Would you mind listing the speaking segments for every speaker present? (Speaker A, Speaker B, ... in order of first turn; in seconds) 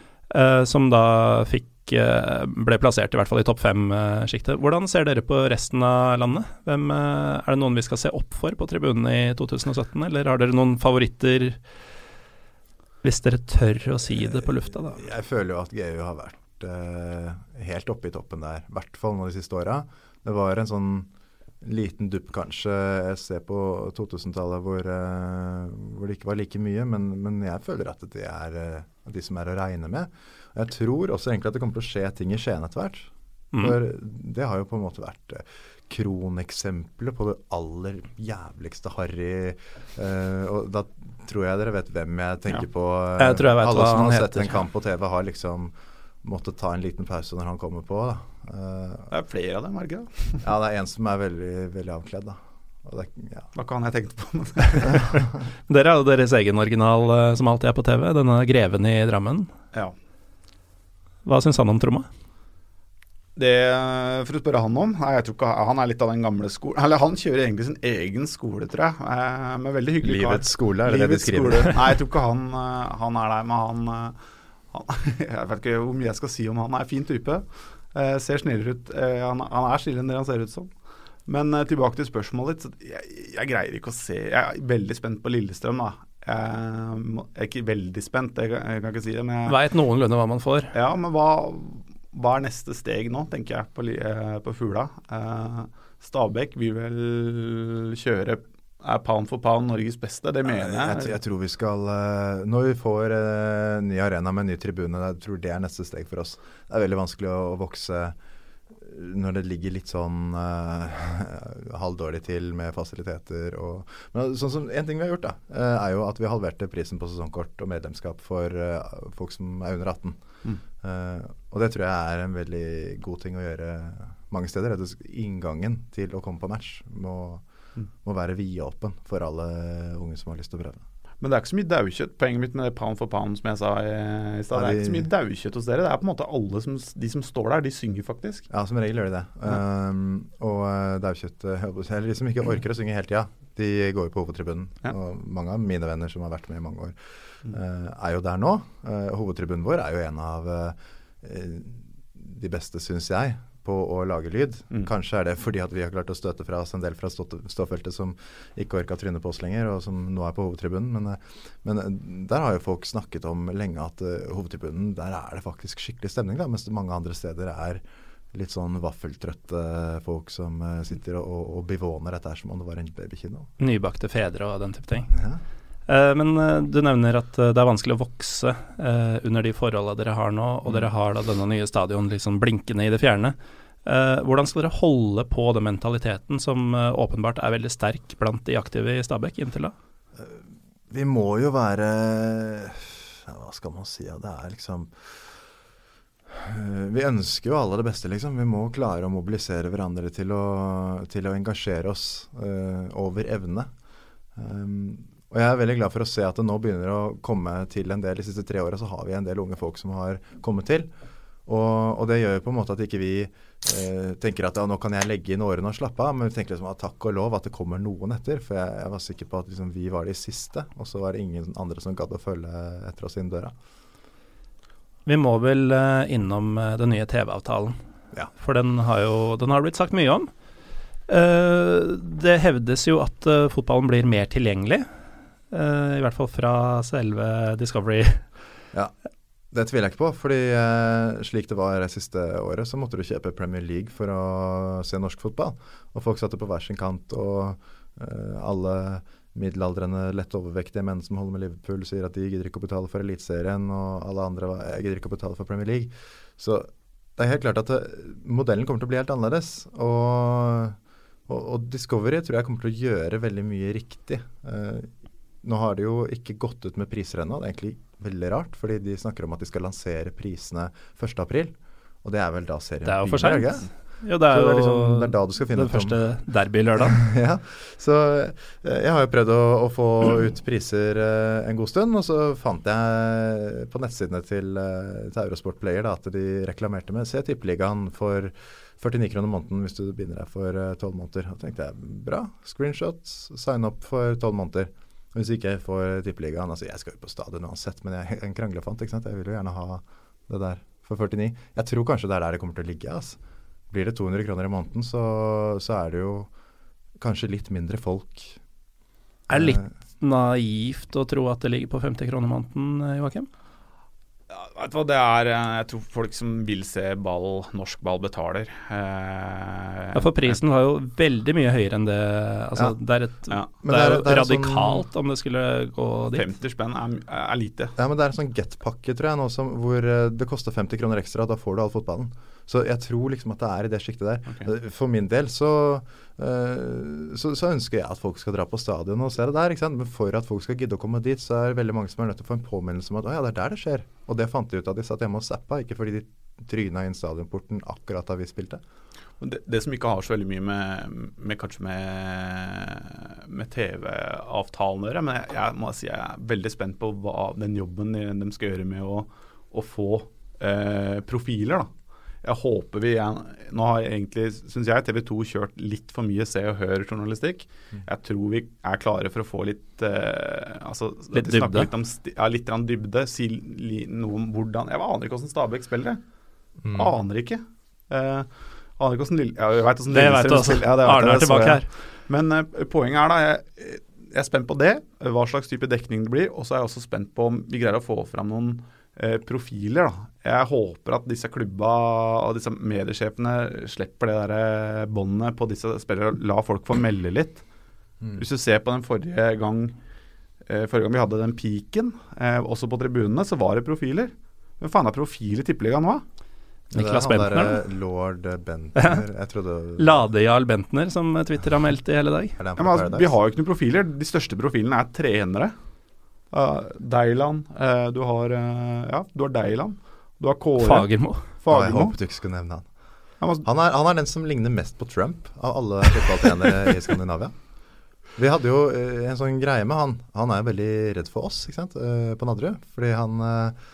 Speaker A: 0.3-11.6, 13.0-15.0, 43.2-44.6, 55.7-59.5, 61.2-62.1, 89.5-90.7, 173.6-175.1, 175.9-189.8, 225.1-227.8, 228.4-230.3, 231.1-234.9, 235.5-238.2, 272.9-277.0, 309.3-313.3, 319.9-326.3, 371.1-371.7, 379.9-381.7, 406.7-407.6, 408.8-409.0, 409.8-412.4, 420.6-421.3
Speaker B: 14.2-21.1, 21.6-49.1, 50.4-53.5, 70.0-71.8, 100.5-108.2, 108.7-120.2, 120.8-127.4, 128.0-130.8, 134.5-135.1, 138.5-173.5, 175.1-175.4, 190.2-195.3, 196.3-203.7, 204.4-210.9, 211.5-223.5, 239.5-273.7, 274.2-276.0, 276.8-303.2, 303.7-306.3, 307.0-308.4, 309.3-309.7, 323.6-324.9, 327.8-348.6, 376.6-376.9, 406.7-410.1, 412.4-413.1, 421.5-422.7, 423.4-427.3, 428.2-433.6
Speaker C: 49.1-50.4, 53.5-55.1, 63.4-74.2, 74.7-89.6, 90.7-101.1, 131.2-138.5, 314.3-320.4, 326.1-327.7, 349.2-361.7, 362.2-376.0, 376.7-397.4, 398.1-399.8, 400.5-406.0, 412.6-415.6, 416.3-422.0